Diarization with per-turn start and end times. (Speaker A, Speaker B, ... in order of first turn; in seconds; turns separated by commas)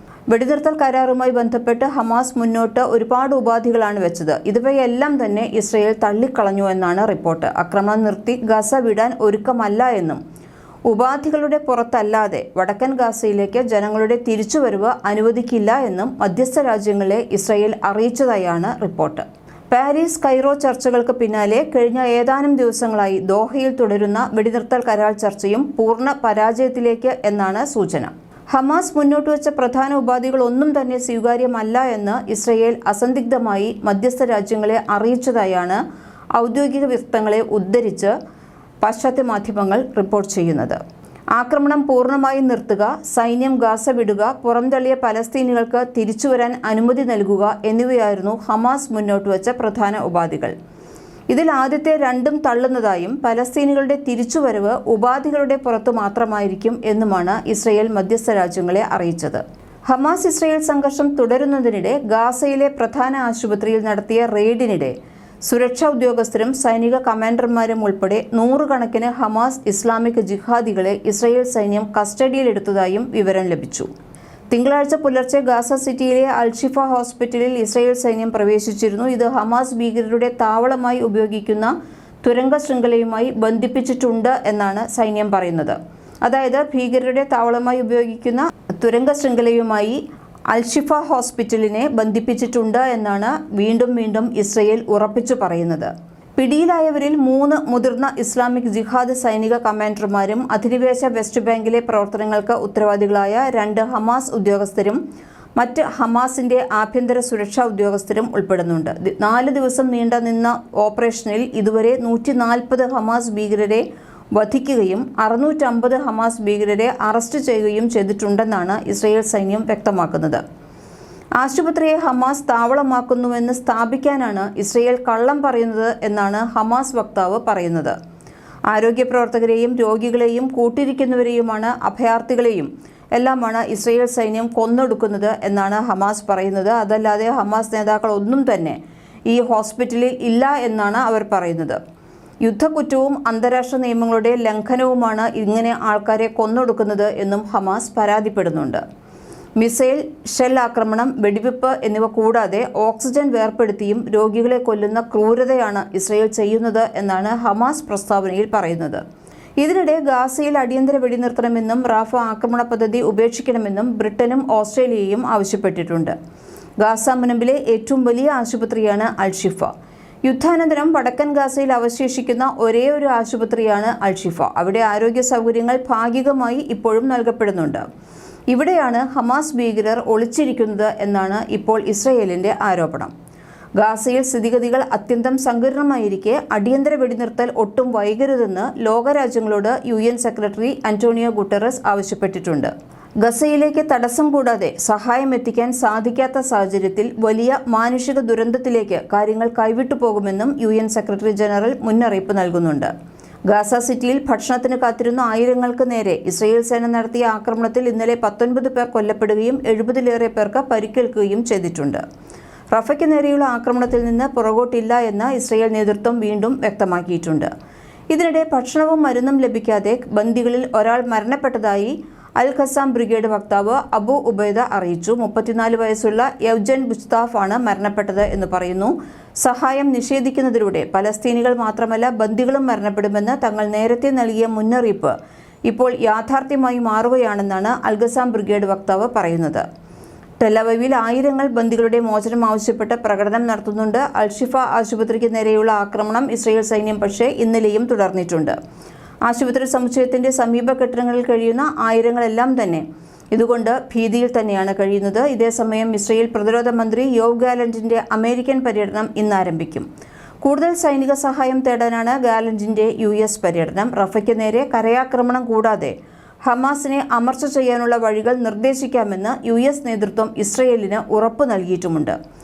Speaker A: 0.3-10.2, Speaker A: 10.9-35.8, Speaker A: 36.4-38.1, Speaker A: 38.8-40.8, Speaker A: 41.3-50.5, Speaker A: 51.3-64.9, Speaker A: 65.5-73.9, Speaker A: 74.5-105.0, Speaker A: 105.6-113.8, Speaker A: 114.3-120.4, Speaker A: 121.4-128.0, Speaker A: 128.7-141.8, Speaker A: 142.4-148.8, Speaker A: 149.6-159.0, Speaker A: 159.6-166.1, Speaker A: 166.8-169.7, Speaker A: 170.2-177.8, Speaker A: 178.5-183.1, Speaker A: 183.8-202.9, Speaker A: 203.5-212.0, Speaker A: 212.7-217.5, Speaker A: 218.1-235.1, Speaker A: 235.7-239.6, Speaker A: 240.4-248.6, Speaker A: 249.2-259.9, Speaker A: 260.4-265.9, Speaker A: 266.5-272.2